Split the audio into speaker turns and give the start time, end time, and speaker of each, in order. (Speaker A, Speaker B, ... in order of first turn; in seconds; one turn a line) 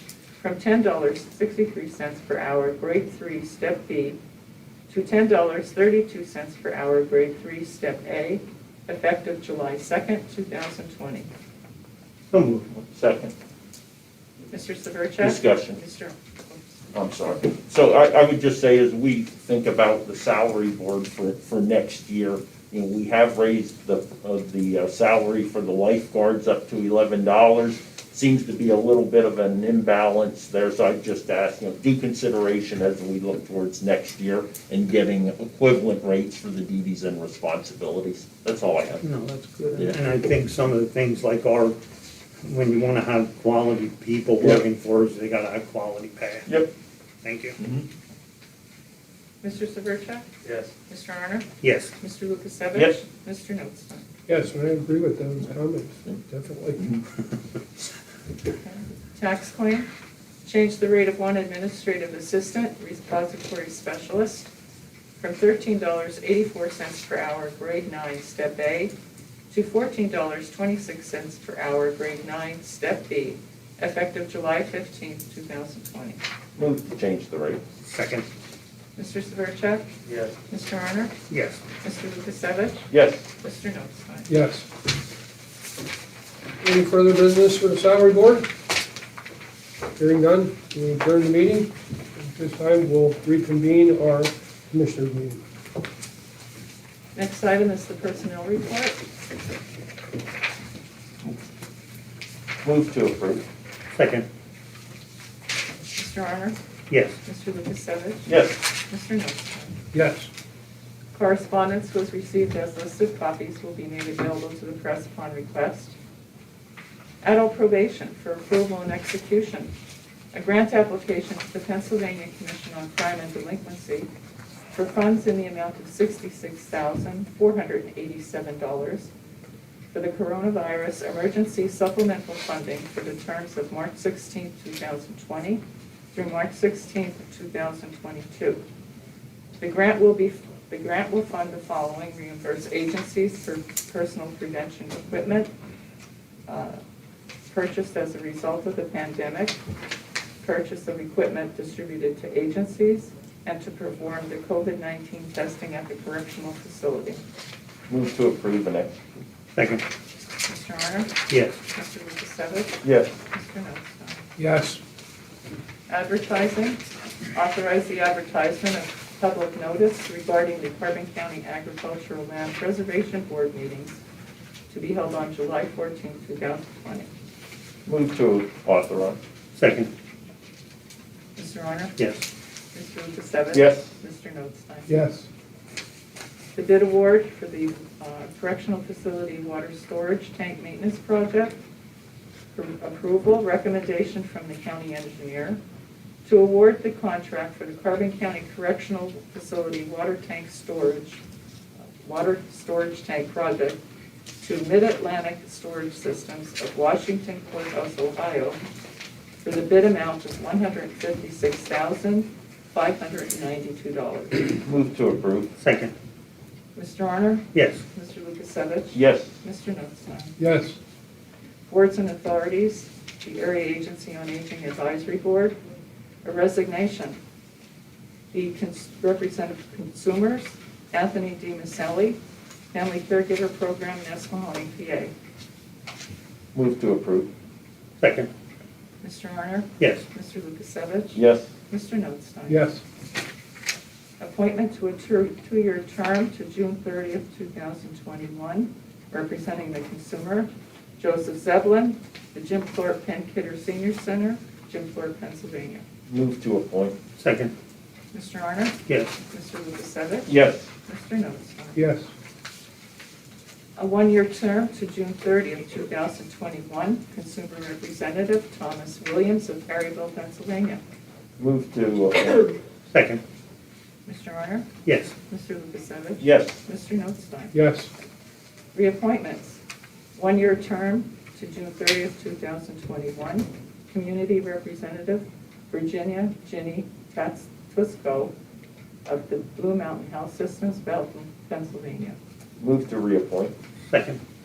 Speaker A: 0.4-4.2
Speaker A: 4.9-11.3
Speaker B: 12.3-12.6
Speaker C: 12.6-13.3
Speaker A: 14.5-16.8
Speaker C: 15.2-15.8
Speaker C: 16.9-39.1
Speaker B: 39.0-41.8
Speaker B: 42.4-46.5
Speaker B: 47.2-47.6
Speaker C: 47.6-47.8
Speaker A: 49.4-50.2
Speaker B: 50.4-50.7
Speaker A: 50.9-54.1
Speaker B: 51.6-51.9
Speaker D: 54.3-56.9
Speaker A: 58.6-59.9
Speaker A: 60.4-64.5
Speaker A: 65.2-68.9
Speaker A: 69.5-76.2
Speaker C: 76.6-77.6
Speaker B: 77.9-78.2
Speaker A: 79.0-79.9
Speaker A: 80.5-81.1
Speaker B: 81.3-81.6
Speaker A: 81.8-82.9
Speaker C: 82.9-83.2
Speaker A: 83.4-84.3
Speaker D: 84.3-84.6
Speaker D: 86.6-88.5
Speaker D: 90.0-95.4
Speaker A: 97.1-99.0
Speaker C: 102.6-103.4
Speaker B: 103.9-104.2
Speaker A: 105.9-106.6
Speaker B: 106.9-107.2
Speaker A: 107.2-109.8
Speaker C: 108.2-108.6
Speaker D: 109.9-110.3
Speaker A: 111.1-115.9
Speaker A: 117.2-119.7
Speaker A: 120.3-124.1
Speaker A: 124.7-129.1
Speaker A: 129.9-135.6
Speaker A: 136.1-138.6
Speaker A: 139.6-145.5
Speaker A: 146.5-146.8
Speaker A: 147.5-149.6
Speaker A: 150.4-157.2
Speaker C: 157.9-159.0
Speaker B: 159.5-159.8
Speaker A: 160.4-164.2
Speaker B: 161.3-161.6
Speaker C: 162.8-163.1
Speaker D: 164.4-164.8
Speaker A: 165.9-166.8
Speaker A: 167.3-174.0
Speaker A: 174.7-177.1
Speaker C: 177.8-179.2
Speaker B: 179.5-179.9
Speaker A: 181.3-182.0
Speaker B: 182.0-182.2
Speaker A: 182.7-185.0
Speaker C: 183.5-183.9
Speaker D: 184.9-185.2
Speaker A: 186.5-191.6
Speaker A: 192.5-195.6
Speaker A: 196.2-201.2
Speaker A: 202.0-203.8
Speaker A: 204.4-208.6
Speaker A: 209.4-214.6
Speaker C: 214.6-215.5
Speaker B: 215.6-215.9
Speaker A: 216.7-220.3
Speaker B: 217.5-217.8
Speaker C: 218.9-219.3
Speaker D: 220.4-220.8
Speaker A: 221.7-225.5
Speaker A: 226.2-227.2
Speaker A: 228.3-232.2
Speaker A: 232.7-235.1
Speaker C: 236.5-237.3
Speaker B: 238.0-238.3
Speaker A: 239.0-242.7
Speaker B: 239.8-240.0
Speaker C: 241.1-241.5
Speaker D: 242.5-242.8
Speaker A: 244.2-255.8
Speaker C: 256.1-257.0
Speaker B: 257.2-257.5
Speaker A: 258.1-261.8
Speaker C: 260.3-260.7
Speaker D: 261.7-262.1
Speaker A: 263.8-270.8
Speaker C: 271.4-272.5
Speaker B: 272.9-273.2
Speaker A: 274.0-274.7
Speaker B: 274.8-275.1
Speaker A: 275.2-277.6
Speaker C: 276.2-276.6
Speaker D: 277.5-277.9
Speaker A: 278.7-279.6
Speaker A: 280.1-288.3
Speaker A: 289.1-292.2
Speaker C: 292.6-293.5
Speaker B: 293.9-294.2